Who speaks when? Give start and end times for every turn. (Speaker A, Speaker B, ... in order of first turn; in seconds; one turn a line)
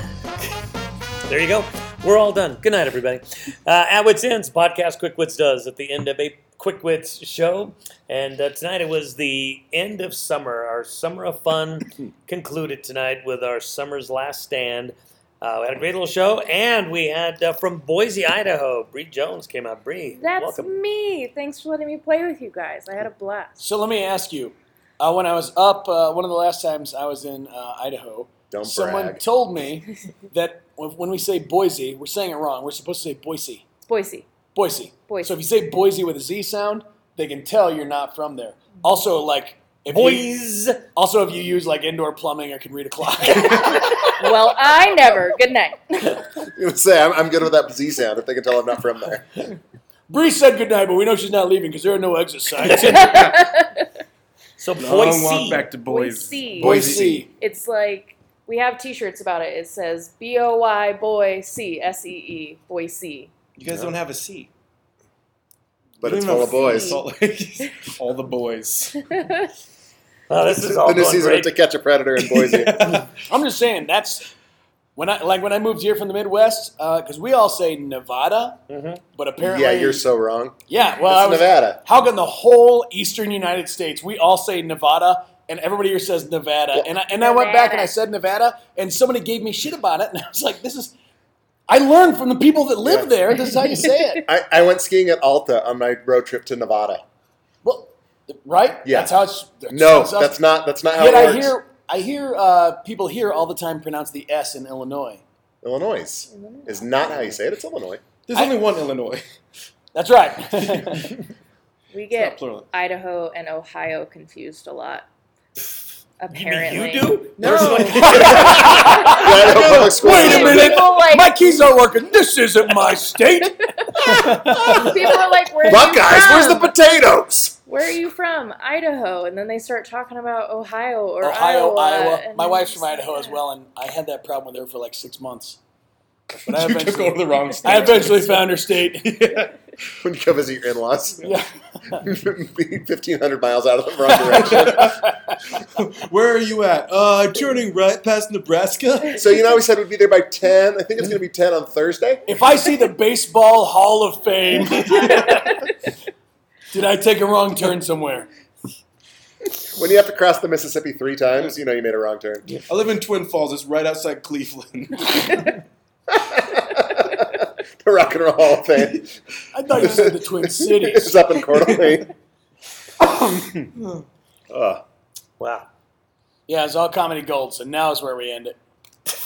Speaker A: 1.3-20.7
Speaker B: 20.1-23.6
Speaker C: 23.6-33.7
Speaker D: 28.5-29.2
Speaker B: 33.9-34.3
Speaker C: 34.5-40.3
Speaker B: 35.1-35.3
Speaker A: 39.9-40.8
Speaker C: 40.9-44.4
Speaker B: 43.6-46.3
Speaker D: 46.5-49.4
Speaker C: 50.1-53.3
Speaker A: 52.6-53.1
Speaker B: 52.9-53.8
Speaker A: 54.6-55.6
Speaker E: 54.8-57.2
Speaker B: 55.9-63.3
Speaker C: 56.6-57.3
Speaker E: 63.6-64.5
Speaker D: 66.0-67.0
Speaker E: 66.0-69.0
Speaker B: 66.4-67.0
Speaker A: 70.3-71.5
Speaker D: 70.6-73.1
Speaker C: 73.0-74.2
Speaker C: 75.0-78.6
Speaker A: 78.7-79.0
Speaker C: 79.1-80.0
Speaker D: 79.4-81.8
Speaker C: 80.7-90.9
Speaker B: 87.1-87.9
Speaker C: 91.7-94.2
Speaker D: 92.8-93.1
Speaker D: 94.2-97.0
Speaker C: 97.6-100.4
Speaker D: 98.8-99.1
Speaker D: 99.7-101.5
Speaker C: 100.9-105.2
Speaker D: 105.6-108.0
Speaker B: 106.3-107.1
Speaker E: 108.3-109.2
Speaker C: 109.9-111.1
Speaker B: 111.9-115.0
Speaker E: 112.1-112.7
Speaker B: 116.2-121.7
Speaker A: 116.3-118.6
Speaker E: 117.6-118.6
Speaker D: 117.6-120.8
Speaker C: 117.7-125.0
Speaker B: 123.8-126.7
Speaker D: 124.0-125.1
Speaker D: 125.6-127.5
Speaker B: 127.7-133.4
Speaker C: 131.2-135.6
Speaker C: 136.4-139.1
Speaker E: 136.4-139.6
Speaker B: 137.7-138.2
Speaker D: 140.0-141.3
Speaker C: 141.2-142.1
Speaker D: 142.0-144.9
Speaker E: 144.3-145.0
Speaker C: 144.3-145.3
Speaker E: 145.6-149.3
Speaker D: 149.1-152.2
Speaker C: 152.2-155.4
Speaker C: 156.7-158.3
Speaker D: 159.7-162.5
Speaker E: 162.7-165.5
Speaker D: 166.1-169.1
Speaker C: 169.5-171.2
Speaker D: 169.8-172.1
Speaker E: 171.6-172.0
Speaker D: 173.0-173.7
Speaker E: 173.8-174.0
Speaker D: 174.5-174.8
Speaker A: 175.4-175.7
Speaker C: 176.5-178.6